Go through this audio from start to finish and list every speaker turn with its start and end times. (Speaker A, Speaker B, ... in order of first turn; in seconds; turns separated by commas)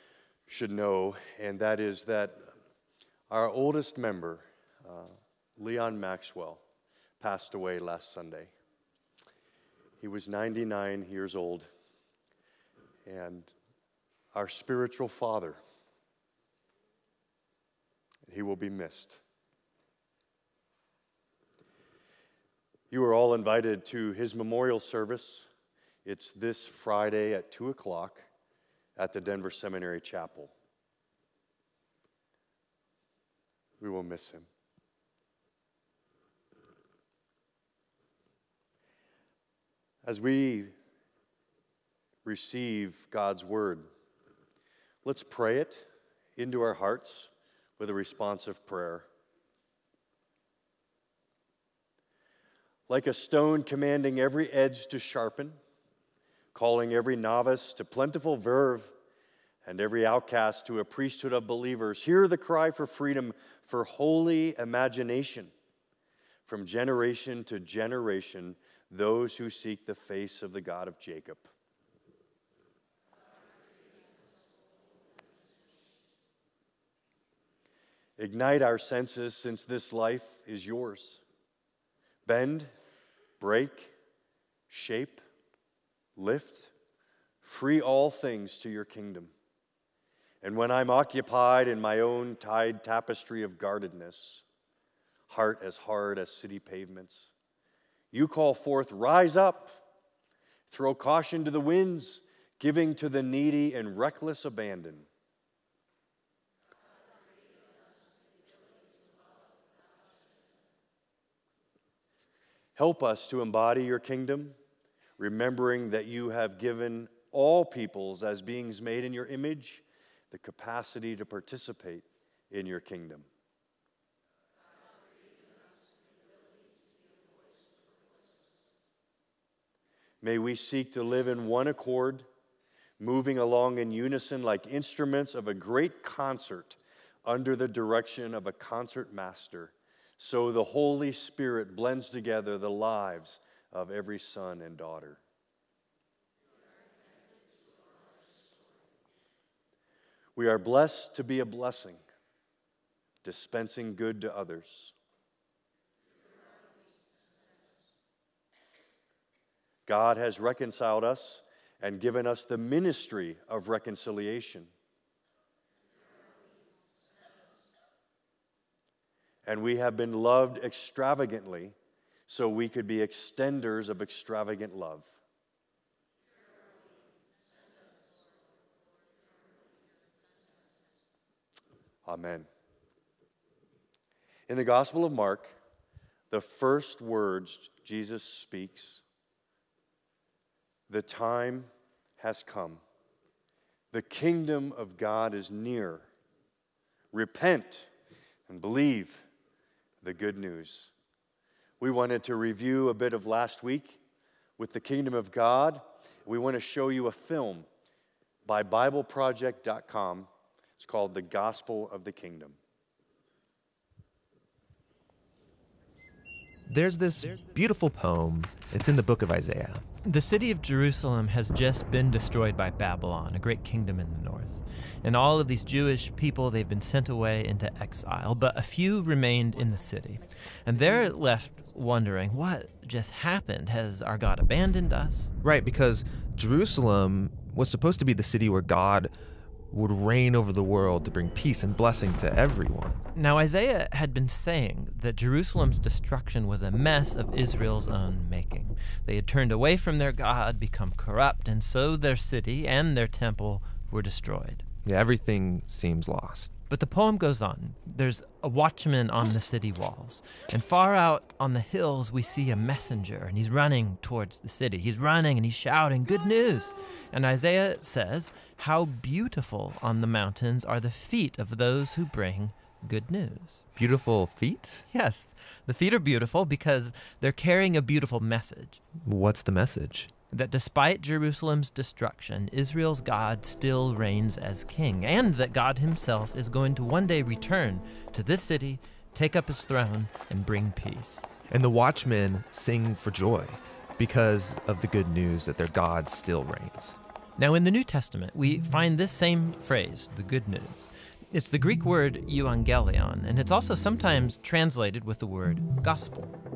Speaker A: 0.5-2.5, Speaker A: 3.3-6.6, Speaker A: 7.2-8.5, Speaker A: 10.0-11.7, Speaker A: 13.1-13.5, Speaker A: 14.3-15.6, Speaker A: 18.3-19.2, Speaker A: 22.9-25.5, Speaker A: 26.1-28.3, Speaker A: 29.0-30.5, Speaker A: 33.8-34.5, Speaker A: 40.0-40.7, Speaker A: 42.2-43.9, Speaker A: 45.0-49.1, Speaker A: 52.9-55.6, Speaker A: 56.5-58.9, Speaker A: 59.6-65.5, Speaker A: 66.5-71.5, Speaker A: 78.2-81.2, Speaker A: 82.2-82.7, Speaker A: 83.4-83.9, Speaker A: 84.7-85.2, Speaker A: 86.2-86.7, Speaker A: 87.4-89.3, Speaker A: 90.4-94.4, Speaker A: 95.3-97.3, Speaker A: 98.1-99.8, Speaker A: 100.7-105.1, Speaker A: 112.8-114.5, Speaker A: 115.2-123.3, Speaker A: 130.2-132.2, Speaker A: 133.0-145.2, Speaker A: 150.3-152.0, Speaker A: 153.2-154.9, Speaker A: 159.9-164.7, Speaker A: 169.5-171.8, Speaker A: 172.3-175.1, Speaker A: 182.1-182.5, Speaker A: 184.5-185.6, Speaker A: 186.3-189.0, Speaker A: 190.9-192.8, Speaker A: 193.9-196.1, Speaker A: 197.1-197.9, Speaker A: 198.5-199.2, Speaker A: 200.0-200.9, Speaker A: 201.8-204.0, Speaker A: 204.6-207.7, Speaker A: 208.5-212.6, Speaker B: 216.7-219.8, Speaker C: 220.0-235.3, Speaker B: 235.4-239.1, Speaker B: 239.7-243.0, Speaker C: 243.2-254.7, Speaker B: 254.8-256.5, Speaker C: 256.7-273.7, Speaker B: 273.8-274.9, Speaker C: 274.9-278.8, Speaker B: 279.0-280.1, Speaker C: 280.3-291.3, Speaker B: 291.5-297.0, Speaker C: 297.4-306.3